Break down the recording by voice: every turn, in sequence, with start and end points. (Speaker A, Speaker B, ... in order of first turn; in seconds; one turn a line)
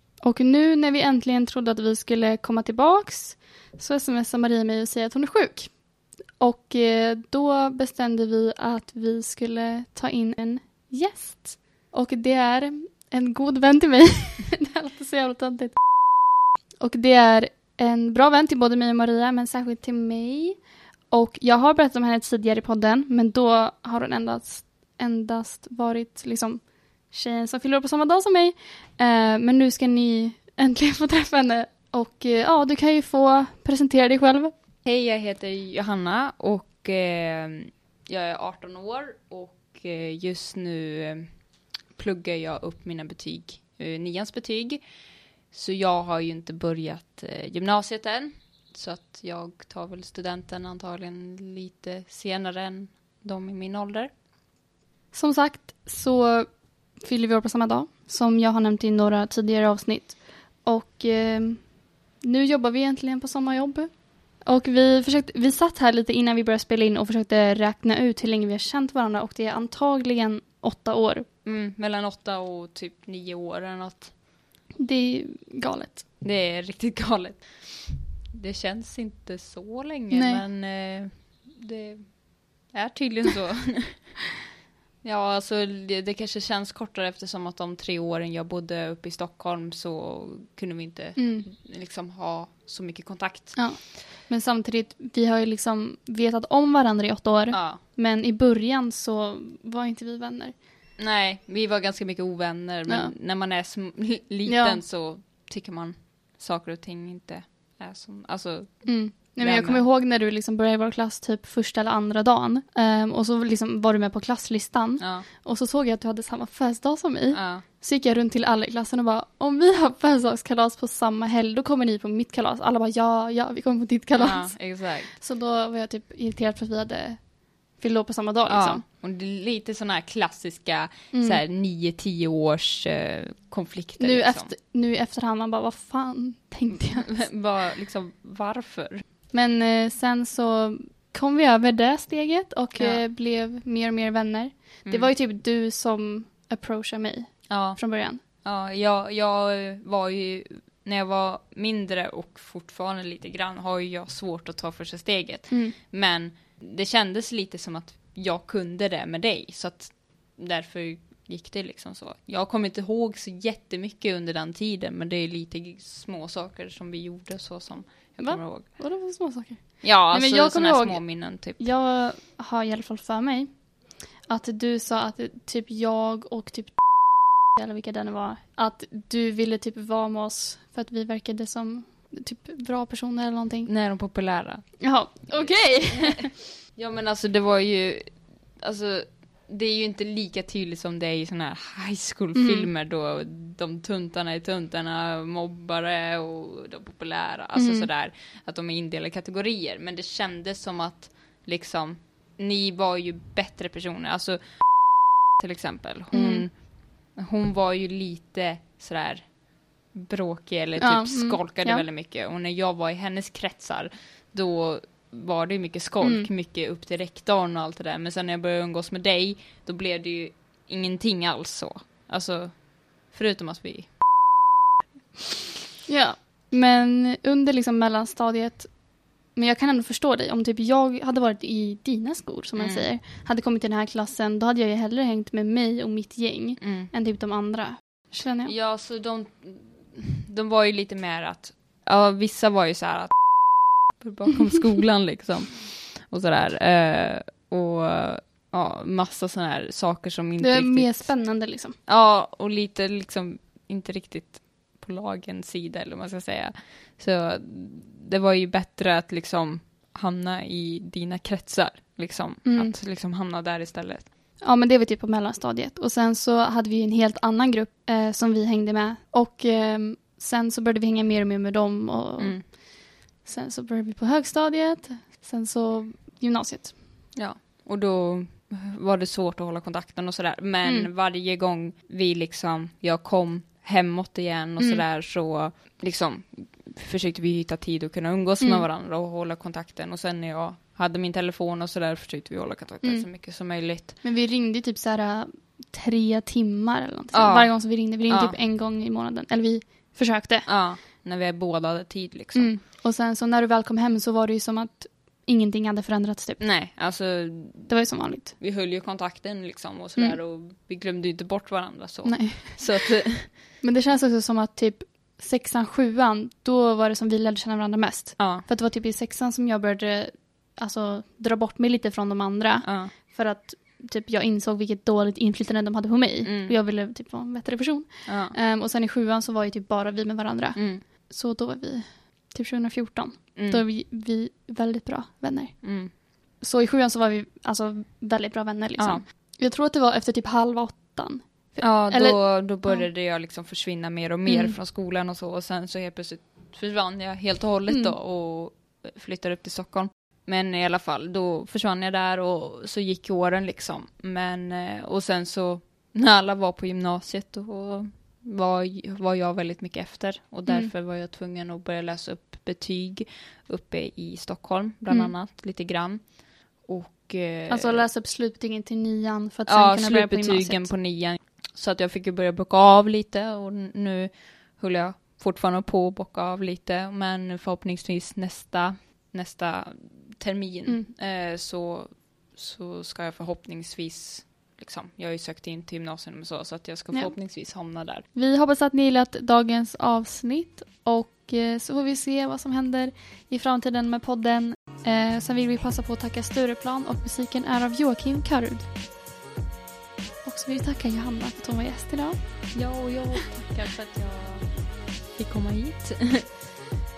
Speaker A: 0.2-16.2
Speaker A: 16.8-34.5
Speaker B: 34.8-45.0
Speaker B: 45.5-54.1
Speaker A: 55.1-71.3
Speaker B: 71.4-74.2
Speaker A: 74.8-76.1
Speaker B: 76.2-84.3
Speaker A: 80.1-80.4
Speaker B: 85.0-93.8
Speaker A: 91.2-91.5
Speaker A: 93.5-100.6
Speaker B: 97.5-97.8
Speaker B: 101.0-109.8
Speaker A: 102.9-103.1
Speaker A: 104.4-104.8
Speaker A: 108.8-128.8
Speaker B: 115.0-115.3
Speaker B: 117.3-117.7
Speaker B: 124.2-125.1
Speaker B: 128.5-134.5
Speaker A: 131.1-131.4
Speaker A: 134.0-137.4
Speaker B: 136.7-139.0
Speaker A: 139.3-148.2
Speaker B: 142.8-143.0
Speaker B: 144.8-145.1
Speaker B: 147.5-169.3
Speaker A: 155.5-155.8
Speaker A: 168.2-186.4
Speaker B: 169.8-171.6
Speaker B: 183.7-224.0
Speaker A: 192.3-192.7
Speaker A: 197.5-197.9
Speaker A: 206.1-206.5
Speaker A: 210.8-211.8
Speaker A: 216.0-216.3
Speaker A: 225.9-238.5
Speaker B: 232.6-232.9
Speaker B: 236.6-236.9
Speaker B: 238.4-264.1
Speaker A: 250.4-251.8
Speaker A: 262.4-262.8
Speaker A: 264.4-276.8
Speaker B: 272.2-272.5
Speaker B: 277.1-294.0
Speaker A: 280.6-280.9
Speaker A: 284.6-284.9
Speaker A: 288.4-288.7
Speaker A: 292.8-300.5
Speaker B: 297.1-298.4
Speaker B: 300.4-302.6
Speaker A: 302.3-306.7
Speaker B: 306.4-313.4
Speaker A: 307.7-308.4
Speaker A: 312.0-313.0
Speaker A: 313.6-342.9
Speaker B: 318.2-318.5
Speaker B: 322.6-322.9
Speaker B: 326.2-326.6
Speaker B: 328.1-328.4
Speaker B: 330.6-330.9
Speaker B: 333.4-333.6
Speaker B: 335.6-335.9
Speaker B: 338.8-339.0
Speaker B: 341.6-367.9
Speaker A: 344.2-344.6
Speaker A: 347.7-348.0
Speaker A: 360.5-360.7
Speaker A: 364.9-365.1
Speaker A: 367.5-370.7
Speaker B: 369.5-388.0
Speaker A: 380.6-380.9
Speaker A: 386.9-398.7
Speaker A: 400.2-402.7
Speaker B: 402.5-406.3